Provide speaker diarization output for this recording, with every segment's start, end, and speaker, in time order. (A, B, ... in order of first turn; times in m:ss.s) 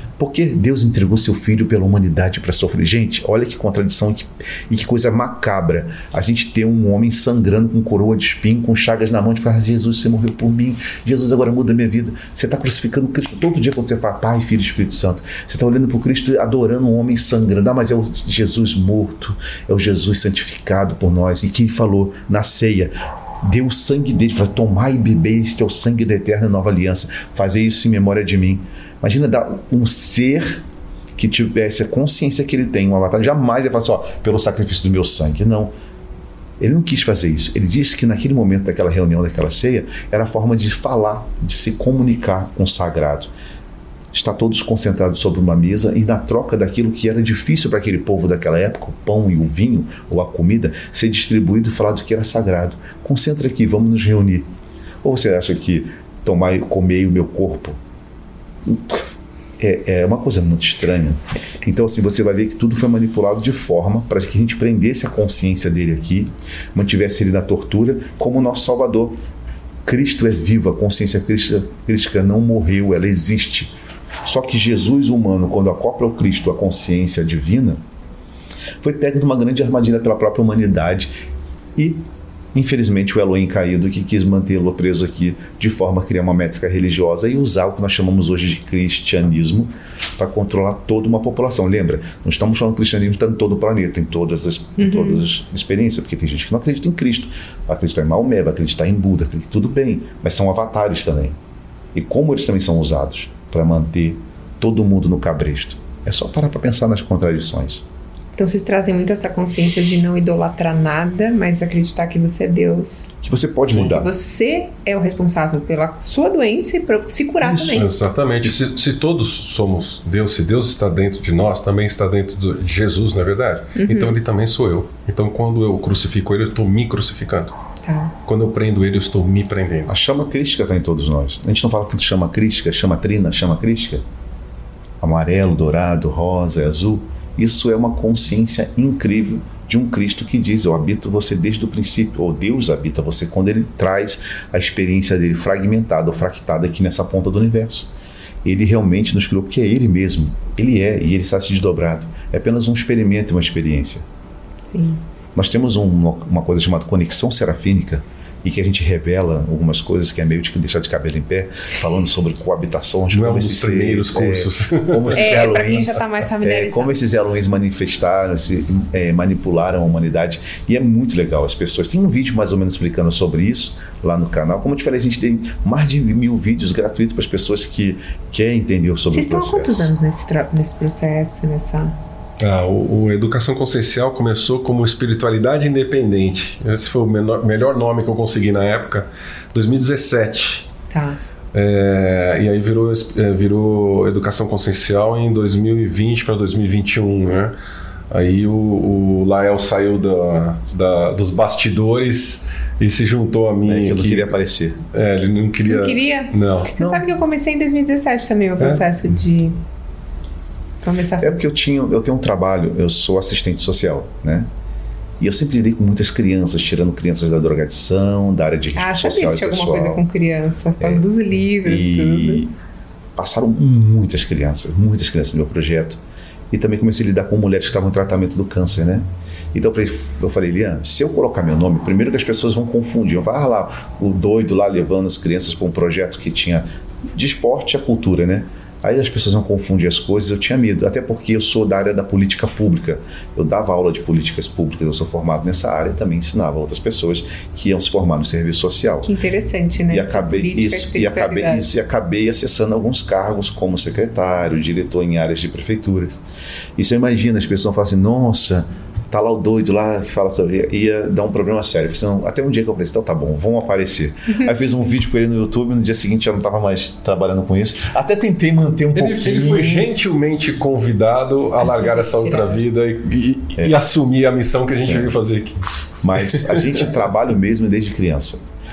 0:00.2-0:30.6 A
0:31.2-0:35.7 A
0:36.6-0:43.3 A
0:44.1-0:54.5 A
0:55.0-0:57.8 A
0:58.6-1:09.1 A
1:09.8-1:13.7 A
1:14.2-1:17.8 A
1:18.8-1:21.1 A
1:21.8-1:41.4 A
1:34.8-1:35.2 B
1:41.9-1:47.8 A
1:48.4-1:53.1 B
1:53.2-1:54.1 A
1:53.7-1:54.0 C
1:53.8-1:57.9 B
1:57.4-1:57.9 A
1:57.7-2:07.6 C
2:03.8-2:04.1 B
2:07.8-2:08.1 B
2:08.2-2:09.9 C
2:09.9-2:14.0 A
2:15.0-2:27.9 A
2:28.4-2:34.0 A
2:34.7-2:35.0 B
2:35.4-2:59.9 A
2:43.1-2:46.0 C
2:45.1-2:46.9 B
2:59.1-3:02.0 B
3:02.4-3:10.7 C
3:10.9-3:11.2 B
3:11.5-3:17.5 C
3:18.1-3:24.4 C
3:23.6-3:24.8 A
3:24.9-3:26.7 C
3:25.6-3:29.6 B
3:26.8-3:27.0 A
3:28.6-3:28.8 C
3:30.8-3:31.4 B
3:31.2-3:34.5 A
3:35.2-3:40.0 A
3:38.7-3:42.4 B
3:40.8-3:41.0 A
3:41.6-3:42.5 A
3:43.2-3:46.0 A
3:46.5-4:09.1 A
4:09.0-4:11.7 B
4:09.9-4:16.2 A
4:16.8-4:29.9 A
4:28.9-4:35.6 C
4:31.6-4:32.6 B
4:34.9-4:35.1 A
4:36.0-4:38.4 A
4:36.1-4:36.9 C